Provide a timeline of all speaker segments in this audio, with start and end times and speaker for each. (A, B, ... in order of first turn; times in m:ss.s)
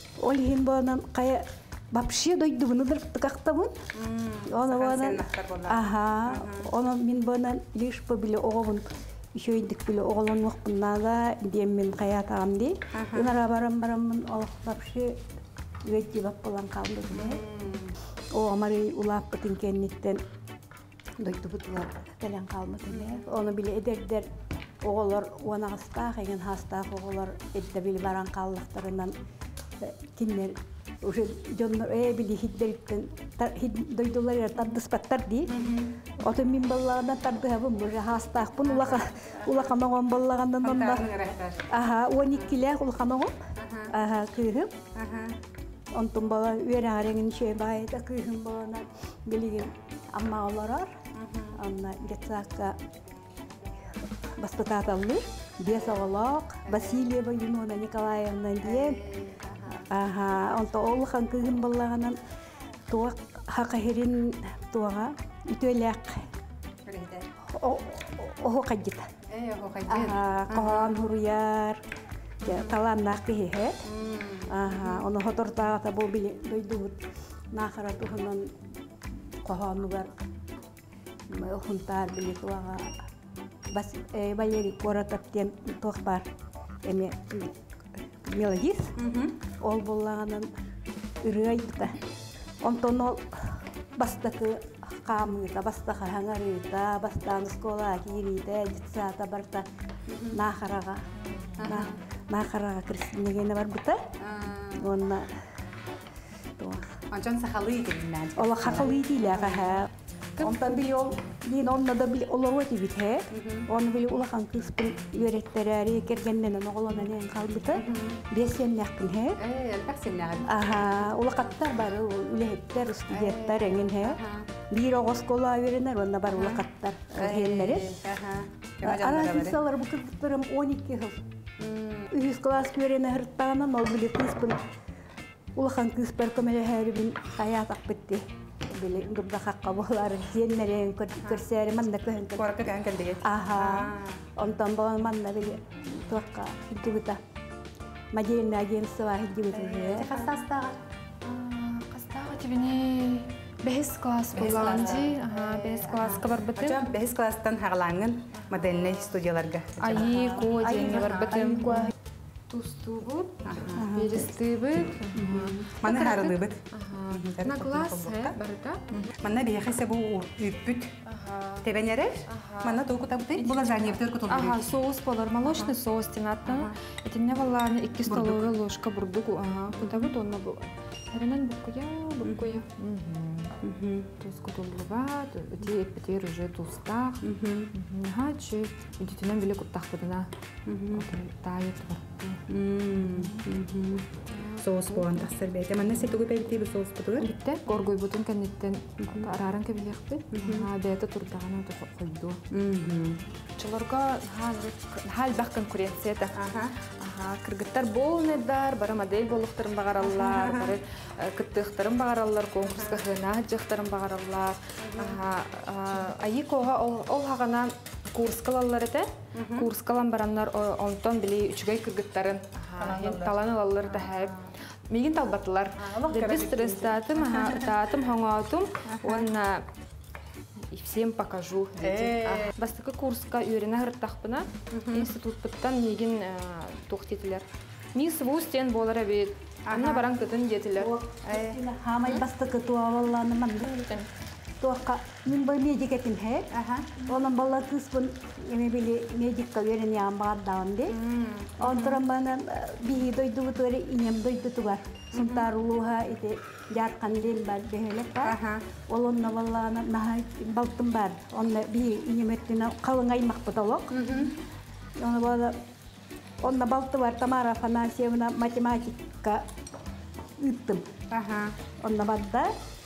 0:00.2-0:03.8 A
0:03.9-0:06.7 B
0:04.5-0:15.2 A
0:12.9-0:13.3 B
0:15.9-0:17.4 A
0:17.1-0:17.9 B
0:18.4-0:20.2 A
0:21.2-0:24.3 A
0:22.9-0:23.3 B
0:24.8-0:29.1 A
0:29.8-0:35.6 A
0:35.5-0:35.9 B
0:36.2-0:41.1 A
0:38.6-0:39.8 B
0:40.6-0:41.6 B
0:41.7-0:43.4 A
0:43.6-0:43.9 B
0:43.9-0:44.8 A
0:45.0-0:45.4 B
0:46.0-0:51.0 A
0:51.2-0:51.6 B
0:51.6-0:52.8 A
0:54.2-0:59.0 A
0:56.7-0:57.0 B
0:58.6-0:59.9 B
0:59.8-1:02.2 A
1:02.9-1:06.2 A
1:06.9-1:07.3 B
1:07.5-1:09.1 A
1:09.3-1:10.9 B
1:09.9-1:11.8 A
1:12.4-1:13.8 A
1:12.4-1:12.8 B
1:13.8-1:15.0 B
1:14.5-1:18.5 A
1:19.4-1:20.2 A
1:21.3-1:23.0 A
1:23.7-1:26.3 A
1:26.8-1:29.0 A
1:29.0-1:29.4 B
1:29.6-1:30.5 A
1:31.2-1:32.0 A
1:32.6-1:39.6 A
1:40.1-1:40.4 B
1:40.3-1:41.1 A
1:41.6-1:42.0 B
1:41.6-1:44.1 A
1:44.2-1:44.9 B
1:44.8-1:45.4 A
1:46.6-1:47.0 A
1:47.1-1:49.8 B
1:48.4-1:59.4 A
1:53.3-1:53.7 B
1:57.7-1:58.2 B
1:59.4-2:00.6 B
2:00.5-2:04.2 A
2:03.1-2:04.5 B
2:04.7-2:07.9 A
2:06.3-2:06.6 B
2:07.2-2:09.6 B
2:08.8-2:11.2 A
2:11.6-2:12.1 B
2:12.1-2:14.6 A
2:15.6-2:22.6 A
2:22.4-2:24.3 B
2:23.2-2:27.2 A
2:28.1-2:30.2 A
2:29.5-2:30.8 B
2:31.2-2:36.8 C
2:34.4-2:41.5 B
2:38.3-2:39.1 C
2:39.8-2:41.9 C
2:40.4-2:41.9 A
2:42.5-2:49.1 C
2:43.4-2:43.8 B
2:43.8-2:44.2 A
2:45.3-2:48.4 B
2:45.3-2:45.6 A
2:49.0-2:51.0 B
2:51.0-2:51.7 C
2:51.6-2:54.7 B
2:52.3-3:03.6 C
2:55.4-2:55.7 B
2:56.5-2:56.7 B
2:58.1-2:58.5 B
2:59.8-3:00.1 B
3:02.2-3:02.6 B
3:03.6-3:04.1 B
3:04.2-3:10.3 C
3:07.2-3:07.7 B
3:10.7-3:11.1 B
3:10.9-3:13.5 C
3:12.5-3:17.3 B
3:14.3-3:15.3 C
3:17.2-3:22.4 C
3:20.3-3:20.7 B
3:22.5-3:23.2 B
3:23.6-3:26.4 C
3:26.4-3:26.7 B
3:27.0-3:49.6 C
3:30.0-3:30.8 B
3:32.7-3:33.0 B
3:34.8-3:35.2 B
3:39.4-3:39.7 B
3:42.8-3:44.3 B
3:45.8-3:47.7 B
3:48.9-3:49.3 B
3:50.7-4:00.9 C
3:51.8-3:52.5 B
3:54.7-3:55.1 B
3:59.7-4:00.0 B
4:00.8-4:04.0 A
4:01.2-4:01.6 B
4:04.6-4:06.5 A
4:06.5-4:06.9 B
4:07.0-4:11.0 A
4:10.9-4:12.0 B
4:11.6-4:18.4 A
4:15.2-4:15.5 B
4:18.2-4:18.6 B
4:18.9-4:24.0 A
4:23.9-4:24.3 B
4:25.0-4:25.6 A
4:26.4-4:29.4 A
4:30.4-4:30.9 A
4:31.1-4:31.5 B
4:31.8-4:32.5 A